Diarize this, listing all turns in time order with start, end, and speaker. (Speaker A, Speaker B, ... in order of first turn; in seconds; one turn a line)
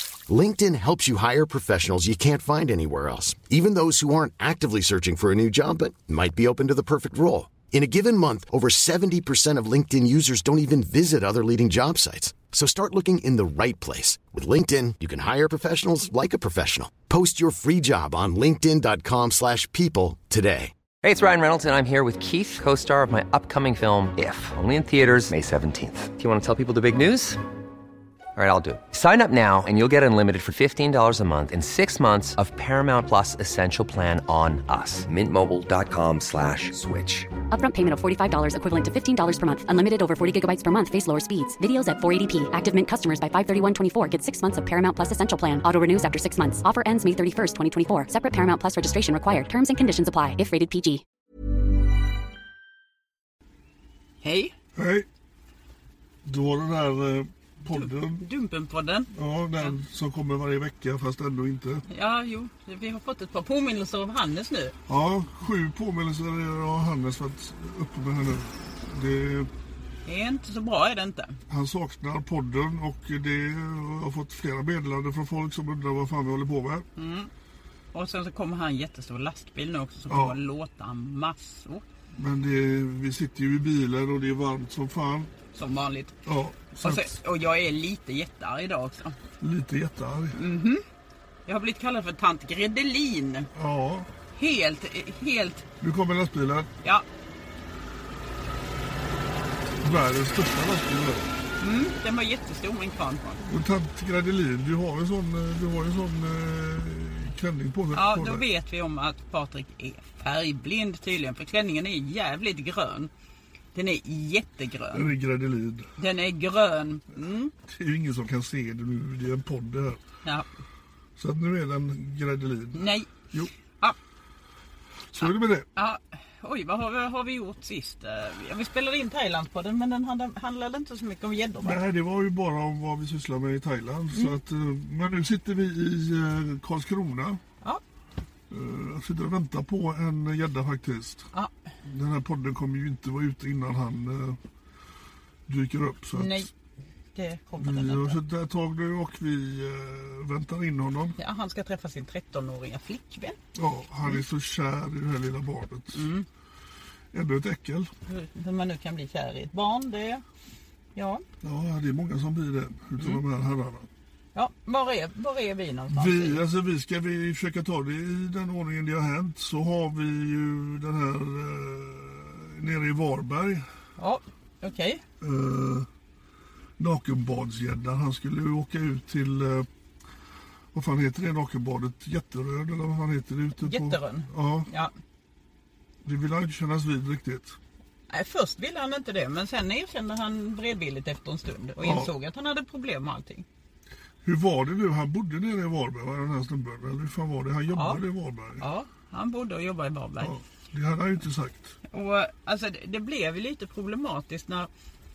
Speaker A: 0.3-20.7
Speaker B: 21.0-27.4
Speaker B: 28.4-37.3
Speaker C: 37.5-51.0
Speaker D: 54.2-54.5
Speaker E: 54.8-55.0
Speaker E: 56.2-58.3
Speaker D: 57.7-59.8
Speaker E: 59.1-61.8
Speaker D: 61.9-64.7
Speaker E: 64.9-69.5
Speaker D: 70.0-71.4
Speaker E: 71.5-76.8
Speaker D: 77.0-77.3
Speaker D: 77.9-81.8
Speaker E: 80.1-80.4
Speaker E: 82.1-85.3
Speaker D: 85.5-86.2
Speaker E: 86.2-87.1
Speaker D: 86.8-89.2
Speaker E: 89.4-90.4
Speaker D: 90.3-90.8
Speaker D: 91.5-93.5
Speaker E: 93.5-94.1
Speaker D: 94.3-95.7
Speaker E: 95.8-96.7
Speaker E: 99.8-101.3
Speaker D: 101.6-103.4
Speaker E: 103.4-108.5
Speaker D: 107.9-113.1
Speaker D: 113.7-115.1
Speaker E: 114.9-115.9
Speaker D: 116.0-117.5
Speaker E: 117.7-120.0
Speaker E: 121.2-123.5
Speaker D: 122.8-123.1
Speaker E: 125.1-125.7
Speaker D: 125.8-131.8
Speaker E: 131.6-137.4
Speaker E: 138.5-141.3
Speaker E: 141.8-144.4
Speaker E: 145.5-146.5
Speaker D: 146.1-146.5
Speaker D: 147.1-148.2
Speaker E: 147.6-151.2
Speaker D: 151.2-153.4
Speaker E: 153.5-156.1
Speaker D: 155.9-156.2
Speaker E: 157.1-157.9
Speaker D: 158.1-160.2
Speaker D: 160.9-161.2
Speaker E: 161.4-163.9
Speaker D: 164.3-166.4
Speaker E: 165.9-173.6
Speaker D: 174.0-175.0
Speaker E: 175.2-175.9
Speaker E: 176.8-179.7
Speaker E: 180.7-184.7
Speaker D: 183.6-184.9
Speaker E: 186.0-187.6
Speaker D: 188.1-193.4
Speaker E: 191.8-192.1
Speaker E: 194.2-198.6
Speaker D: 197.7-198.0
Speaker D: 198.6-200.3
Speaker E: 200.2-201.7
Speaker D: 201.9-204.7